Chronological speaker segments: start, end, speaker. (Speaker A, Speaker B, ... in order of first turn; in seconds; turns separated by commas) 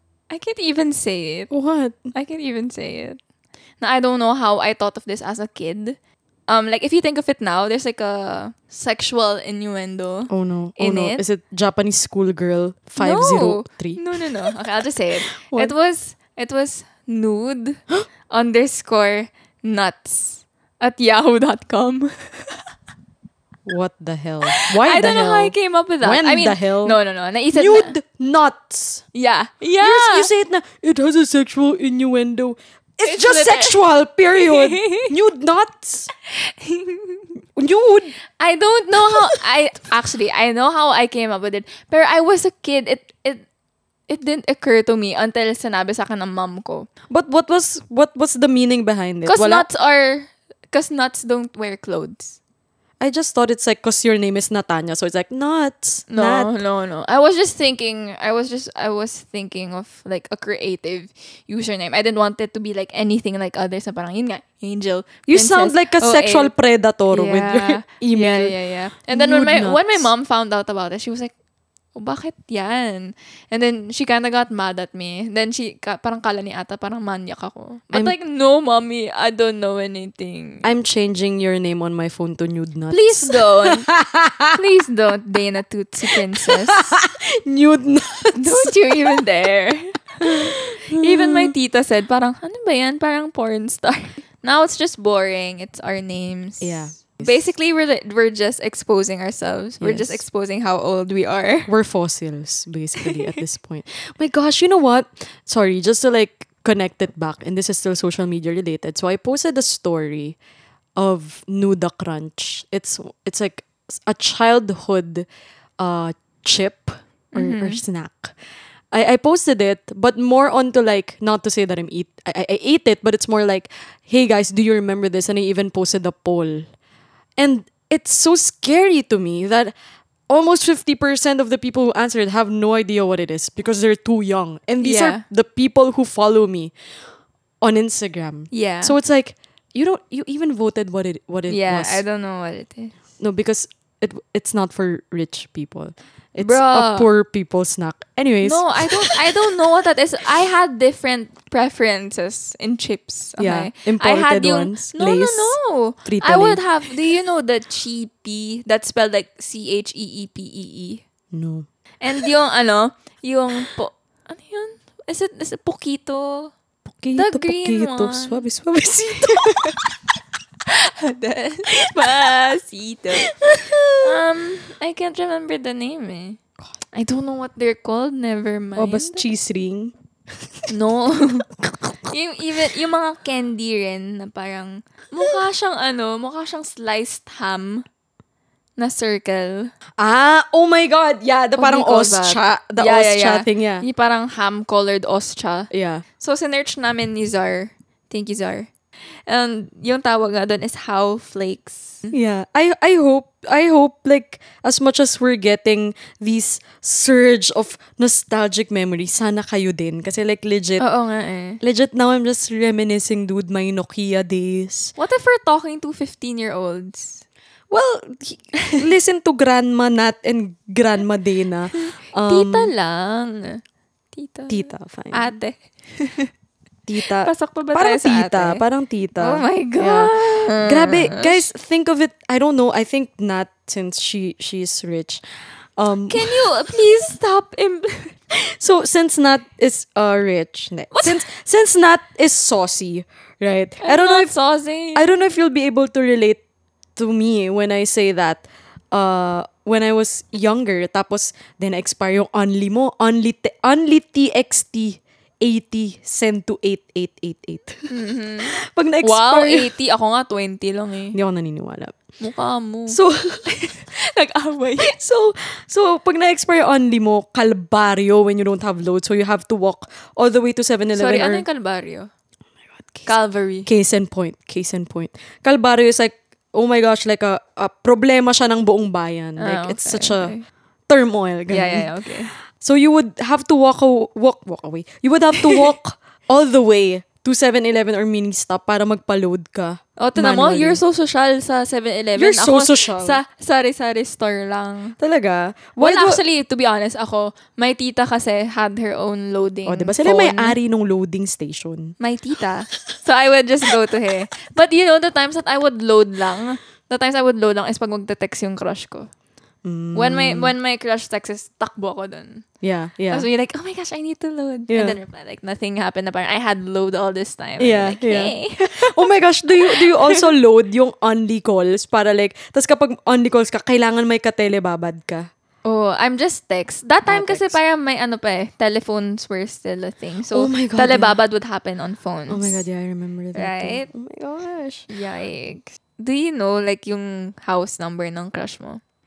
Speaker A: 0.3-1.5, Speaker B: 1.5-2.1, Speaker A: 2.1-3.2, Speaker A: 3.8-11.2, Speaker B: 10.3-14.3, Speaker A: 13.0-22.6, Speaker B: 15.5-15.7, Speaker B: 23.6-27.0, Speaker A: 24.5-27.9, Speaker B: 27.5-29.0, Speaker A: 29.1-30.3, Speaker B: 29.8-36.1, Speaker A: 33.0-33.8, Speaker A: 34.3-35.1, Speaker A: 36.2-37.3, Speaker B: 37.5-38.1, Speaker A: 38.4-43.4, Speaker B: 39.0-39.4, Speaker A: 44.1-46.9, Speaker B: 47.1-49.6, Speaker A: 49.2-52.4, Speaker B: 53.0-56.5, Speaker A: 56.1-66.5, Speaker B: 65.3-68.5, Speaker A: 67.1-71.3, Speaker B: 69.1-70.1, Speaker A: 71.9-80.7, Speaker B: 80.6-84.6, Speaker A: 82.9-83.9, Speaker A: 84.5-86.8, Speaker B: 86.1-89.2, Speaker A: 88.3-101.7, Speaker B: 90.2-91.5, Speaker B: 96.6-97.5, Speaker B: 99.8-100.2, Speaker B: 101.7-110.4, Speaker B: 111.0-115.3, Speaker B: 115.8-118.3, Speaker A: 117.3-117.8, Speaker B: 118.9-126.6, Speaker B: 127.4-129.7, Speaker B: 130.3-136.7, Speaker A: 134.8-135.2, Speaker B: 137.6-142.0, Speaker A: 138.5-138.9, Speaker A: 141.5-142.9, Speaker B: 143.2-149.3, Speaker A: 146.4-147.1, Speaker A: 148.4-161.0, Speaker B: 153.4-156.6, Speaker B: 161.3-161.7, Speaker A: 162.0-166.5, Speaker B: 166.9-169.9, Speaker A: 167.1-168.4, Speaker A: 169.2-169.7, Speaker A: 170.7-173.4, Speaker B: 171.8-172.4, Speaker B: 173.2-174.2, Speaker A: 174.0-176.4, Speaker A: 176.9-179.2, Speaker B: 178.8-179.9, Speaker A: 180.7-181.4, Speaker B: 181.6-182.1, Speaker A: 182.1-187.8, Speaker A: 188.8-189.7, Speaker B: 190.0-193.8, Speaker A: 191.6-198.7, Speaker B: 195.7-196.0, Speaker A: 199.3-202.1, Speaker B: 202.1-210.8, Speaker A: 210.8-211.6, Speaker B: 211.6-214.9, Speaker A: 215.0-217.2, Speaker B: 217.7-222.7, Speaker A: 221.7-223.6, Speaker A: 224.1-226.3, Speaker B: 224.5-225.3, Speaker B: 226.9-235.2, Speaker A: 227.1-228.6, Speaker A: 229.2-231.4, Speaker B: 235.8-236.5, Speaker A: 236.1-238.2, Speaker B: 238.3-244.3, Speaker A: 240.9-241.2, Speaker A: 243.8-245.0, Speaker B: 244.9-246.4, Speaker B: 246.9-257.9, Speaker A: 257.9-261.1, Speaker B: 258.5-259.7, Speaker B: 261.1-261.9, Speaker A: 262.2-265.0, Speaker B: 262.9-263.6, Speaker B: 264.8-271.4, Speaker A: 270.9-272.1, Speaker A: 273.1-273.7, Speaker B: 273.6-280.3, Speaker A: 279.4-280.4, Speaker B: 280.9-281.9, Speaker A: 281.5-282.3, Speaker B: 282.5-290.8, Speaker A: 285.4-285.7, Speaker A: 290.0-294.9, Speaker B: 292.2-293.2, Speaker B: 295.0-296.2, Speaker A: 295.8-300.6, Speaker B: 299.6-301.9, Speaker A: 302.0-309.1, Speaker B: 309.6-310.5, Speaker A: 309.9-312.4, Speaker B: 312.6-313.3, Speaker A: 313.1-320.3, Speaker B: 314.7-315.0, Speaker B: 317.6-325.3, Speaker A: 325.6-332.7, Speaker B: 327.0-327.6, Speaker B: 330.3-331.2, Speaker B: 332.3-334.9, Speaker A: 333.3-333.9, Speaker A: 334.9-338.8